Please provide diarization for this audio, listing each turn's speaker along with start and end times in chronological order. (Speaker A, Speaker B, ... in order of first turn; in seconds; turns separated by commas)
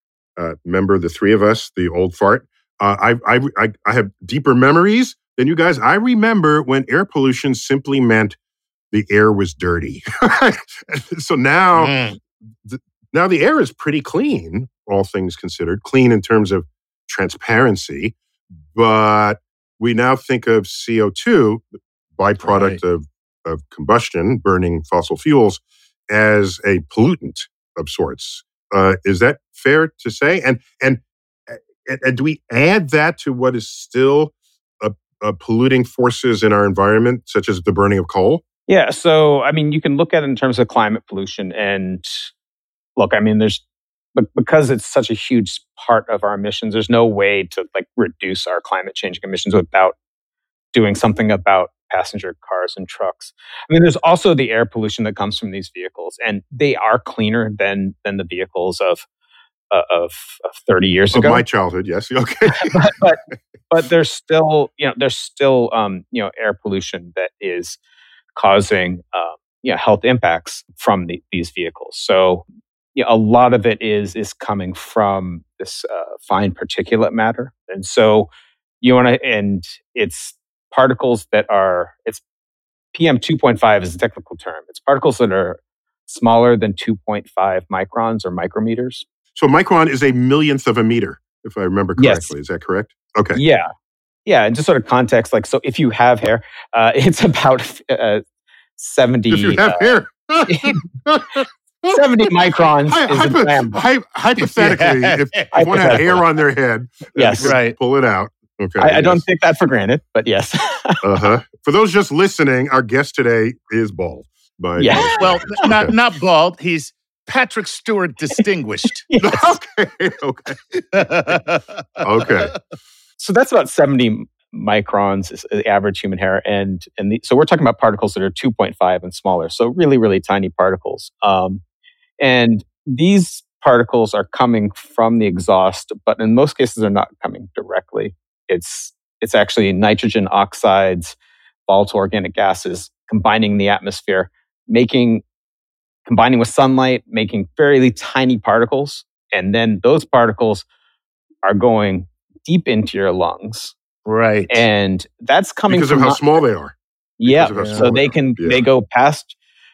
Speaker A: 0.4-8.3, Speaker A: 8.9-11.9, Speaker B: 11.7-12.2, Speaker A: 12.6-18.1, Speaker A: 18.7-38.4, Speaker B: 22.4-22.8, Speaker C: 38.7-42.3, Speaker C: 43.0-43.6, Speaker C: 44.1-49.9, Speaker C: 50.7-59.0, Speaker C: 59.7-61.4, Speaker A: 61.1-62.9, Speaker C: 62.5-67.8, Speaker C: 68.3-72.4, Speaker C: 72.9-78.3, Speaker C: 78.8-82.2, Speaker C: 82.9-89.0, Speaker A: 89.3-93.4, Speaker C: 92.0-92.3, Speaker C: 93.3-93.7, Speaker C: 94.2-98.2, Speaker C: 98.8-99.8, Speaker A: 99.3-102.0, Speaker C: 100.5-100.8, Speaker C: 101.9-103.8, Speaker A: 102.9-109.2, Speaker B: 104.4-105.8, Speaker C: 105.5-106.2, Speaker C: 107.1-107.6, Speaker B: 107.4-107.8, Speaker C: 108.8-111.0, Speaker A: 111.0-115.9, Speaker C: 114.8-115.6, Speaker B: 115.2-119.0, Speaker C: 119.0-119.5, Speaker A: 119.2-121.3, Speaker B: 120.9-122.0, Speaker A: 122.0-122.5, Speaker C: 123.2-131.6, Speaker C: 132.2-141.2, Speaker C: 141.7-145.2, Speaker C: 146.1-150.6, Speaker C: 151.4-153.7, Speaker B: 154.1-154.6, Speaker C: 154.5-156.2, Speaker A: 155.7-158.6, Speaker C: 157.2-159.3, Speaker B: 157.5-157.8